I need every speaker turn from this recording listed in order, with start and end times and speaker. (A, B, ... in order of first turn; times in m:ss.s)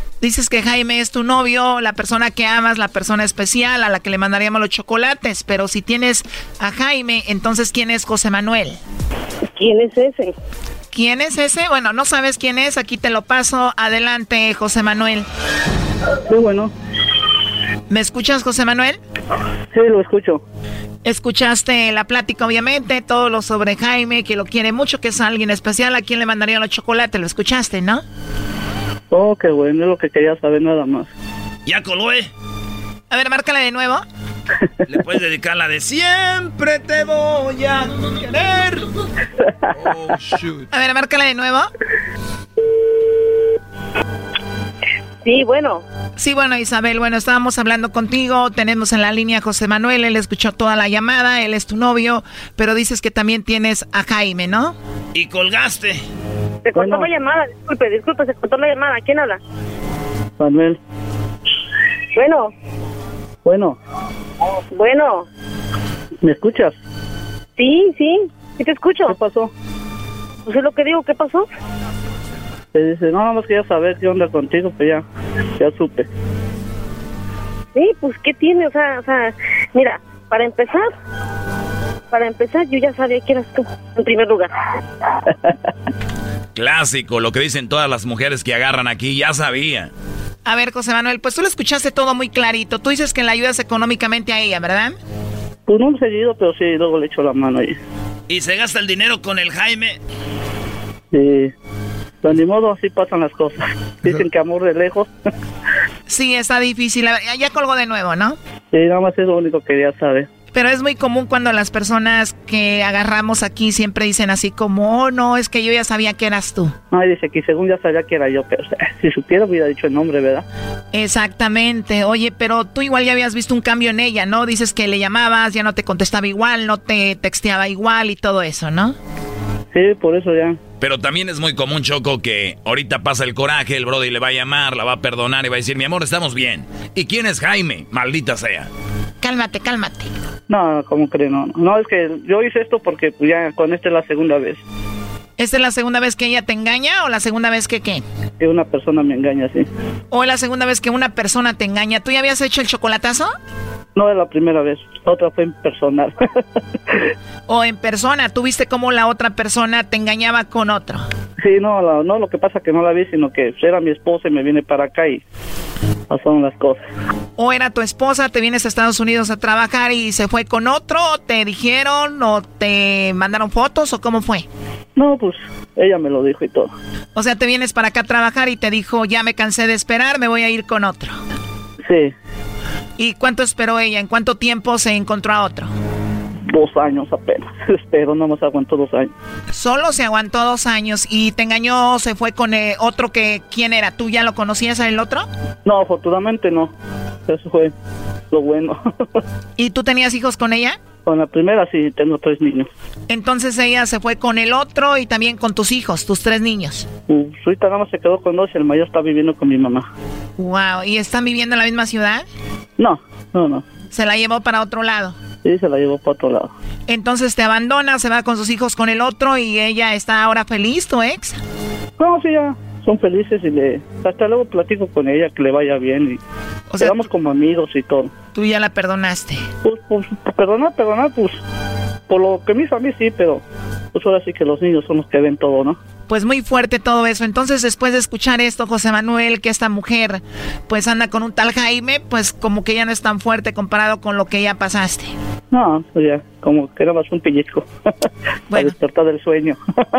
0:00.2-0:08.8 A
0:09.5-0:10.3 B
0:10.9-0:15.2 A
0:16.3-0:16.7 C
0:17.9-0:19.0 A
0:19.7-0:20.4 C
0:21.0-0:28.0 A
0:29.1-0:31.1 C
0:31.6-0:32.3 D
0:33.1-0:34.0 A
0:34.9-0:38.8 D
0:40.7-0:41.7 A
0:45.2-0:45.8 B
0:46.2-0:54.7 A
0:55.1-0:56.0 D
0:56.6-0:59.4 B
0:56.7-0:57.1 C
1:00.4-1:00.8 C
1:02.2-1:02.5 B
1:03.4-1:03.8 C
1:04.7-1:05.2 B
1:06.2-1:06.8 C
1:07.6-1:09.1 B
1:09.0-1:09.5 C
1:10.4-1:11.4 B
1:12.7-1:15.0 C
1:15.6-1:16.1 C
1:17.8-1:20.9 B
1:22.1-1:24.5 B
1:26.5-1:29.9 E
1:30.4-1:35.0 A
1:35.7-1:37.8 C
1:38.3-1:40.0 D
1:41.1-1:41.5 C
1:42.2-1:45.1 C
1:46.1-1:48.4 A
1:48.7-1:50.3 C
1:50.5-1:56.7 A
1:56.9-2:00.4 C
2:00.9-2:09.0 A
2:09.7-2:10.6 C
2:10.8-2:18.7 E
2:19.2-2:20.1 A
2:20.5-2:24.6 C
2:25.4-2:28.0 A
2:28.4-2:29.7 C
2:30.1-2:33.3 A
2:33.9-2:36.2 C
2:37.5-2:41.1 A
2:41.4-2:45.2 C
2:46.1-2:46.9 C
2:47.4-2:54.5 A
2:55.0-2:56.7 C
2:57.1-3:01.2 A
3:01.8-3:02.1 C
3:03.0-3:05.7 A
3:06.5-3:09.1 C
3:09.5-3:15.3 A
3:15.6-3:16.7 C
3:17.3-3:17.7 C
3:18.3-3:18.8 C
3:19.6-3:20.8 A
3:21.0-3:22.7 C
3:23.1-3:26.9 A
3:27.1-3:29.9 C
3:30.4-3:32.2 A
3:32.8-3:33.6 C
3:33.9-3:35.2 A
3:35.4-3:36.5 C
3:36.9-3:41.4 A
3:42.0-3:46.2 C
3:46.7-3:47.0 A
3:46.8-3:48.1 C
3:48.3-3:49.4 A
3:49.6-3:51.4 C
3:52.1-3:53.4 C
3:53.9-3:55.8 C
3:56.1-4:05.1 A
4:05.5-4:07.7 C
4:08.5-4:09.6 C